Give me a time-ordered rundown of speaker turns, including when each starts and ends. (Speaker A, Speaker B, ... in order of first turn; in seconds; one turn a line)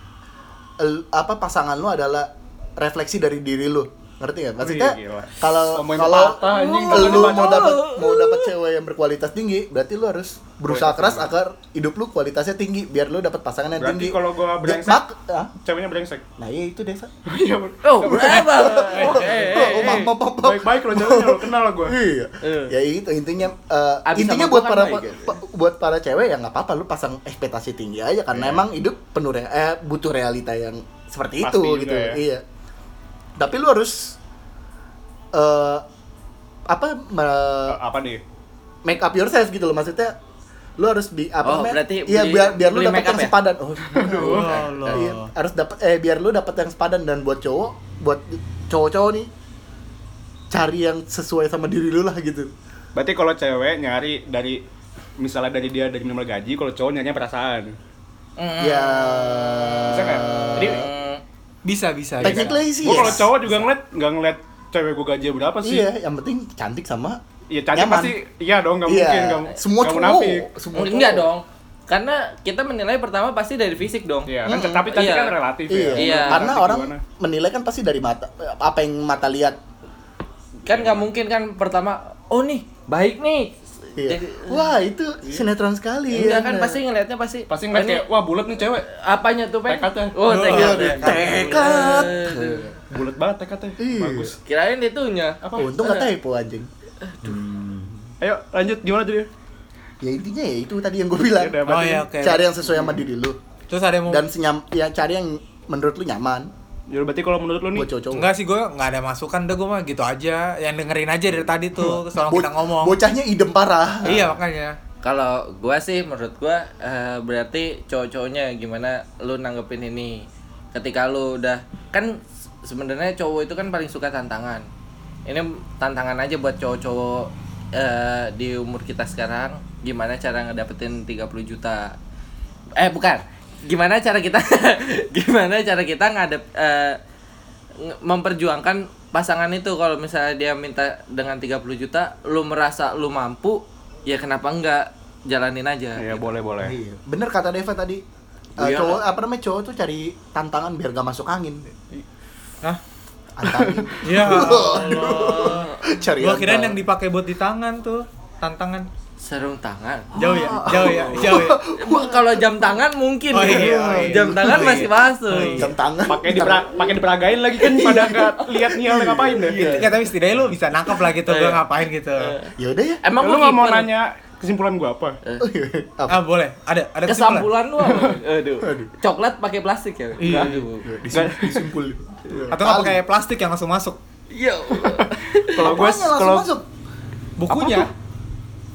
Speaker A: 0.8-15.5
Speaker B: 4.6-7.8
Speaker C: 6.4-8.5
Speaker B: 10.7-11.3
Speaker B: 13.8-15.0
Speaker B: 15.6-16.2
Speaker A: 16.4-17.1
Speaker B: 17.3-22.0
Speaker C: 17.8-20.1
Speaker A: 18.2-32.4
Speaker C: 22.4-22.7
Speaker C: 24.1-25.3
Speaker B: 28.3-28.6
Speaker B: 31.4-32.2
Speaker A: 33.4-34.2
Speaker A: 35.3-35.8
Speaker A: 36.7-37.8
Speaker B: 37.7-38.2
Speaker A: 38.8-40.1
Speaker A: 40.8-49.3
Speaker C: 41.4-43.3
Speaker B: 43.9-44.6
Speaker D: 44.1-45.3
Speaker A: 50.5-52.5
Speaker B: 52.9-54.6
Speaker B: 55.2-57.7
Speaker C: 58.4-61.2
Speaker A: 58.6-60.9
Speaker B: 59.9-60.3
Speaker D: 61.6-63.2
Speaker A: 62.2-63.3
Speaker B: 62.2-65.9
Speaker A: 65.6-67.2
Speaker B: 67.5-70.5
Speaker A: 67.7-68.1
Speaker A: 68.8-71.3
Speaker C: 70.7-75.4
Speaker B: 74.3-77.0
Speaker A: 74.5-75.0
Speaker A: 75.7-79.6
Speaker C: 76.0-76.5
Speaker C: 80.7-84.7
Speaker B: 80.7-81.1
Speaker A: 84.0-86.8
Speaker C: 86.1-88.0
Speaker B: 87.5-88.9
Speaker C: 88.8-92.7
Speaker B: 89.7-90.1
Speaker D: 90.2-92.0
Speaker A: 90.5-92.7
Speaker B: 92.9-94.3
Speaker A: 93.8-94.3
Speaker C: 94.5-96.1
Speaker B: 95.4-95.7
Speaker A: 95.6-96.7
Speaker C: 97.1-97.3
Speaker A: 97.2-98.1
Speaker B: 98.2-99.3
Speaker A: 100.0-103.4
Speaker B: 101.2-102.1
Speaker D: 101.7-102.4
Speaker D: 103.7-104.2
Speaker A: 104.1-106.5
Speaker B: 106.9-107.9
Speaker A: 107.7-108.3
Speaker D: 108.1-113.0
Speaker A: 111.8-114.3
Speaker D: 114.0-114.8
Speaker C: 115.0-124.7
Speaker C: 125.3-132.0
Speaker C: 132.8-137.0
Speaker C: 137.8-146.2
Speaker B: 146.0-146.8
Speaker A: 146.6-148.0
Speaker A: 148.6-151.7
Speaker C: 148.6-149.0
Speaker A: 153.3-156.8
Speaker B: 153.4-154.0
Speaker D: 154.0-155.7
Speaker C: 154.6-156.0
Speaker D: 156.2-158.9
Speaker C: 159.2-165.7
Speaker A: 160.1-162.7
Speaker D: 160.2-161.6
Speaker D: 163.3-165.7
Speaker A: 163.4-164.9
Speaker B: 164.6-164.8
Speaker A: 165.5-166.9
Speaker B: 166.0-169.7
Speaker A: 167.6-169.8
Speaker C: 167.9-168.3
Speaker C: 169.4-169.9
Speaker D: 169.6-172.3
Speaker C: 171.2-173.9
Speaker A: 172.6-173.0
Speaker B: 173.2-175.2
Speaker A: 175.4-176.2
Speaker D: 176.1-177.5
Speaker C: 177.1-180.8
Speaker B: 177.8-178.2
Speaker A: 178.6-178.9
Speaker D: 180.2-180.6
Speaker B: 180.2-180.5
Speaker A: 180.8-183.0
Speaker B: 181.1-181.7
Speaker B: 182.3-182.5
Speaker D: 182.5-184.0
Speaker C: 184.3-185.8
Speaker B: 185.5-186.5
Speaker A: 185.6-186.7
Speaker D: 187.4-187.9
Speaker A: 187.5-187.8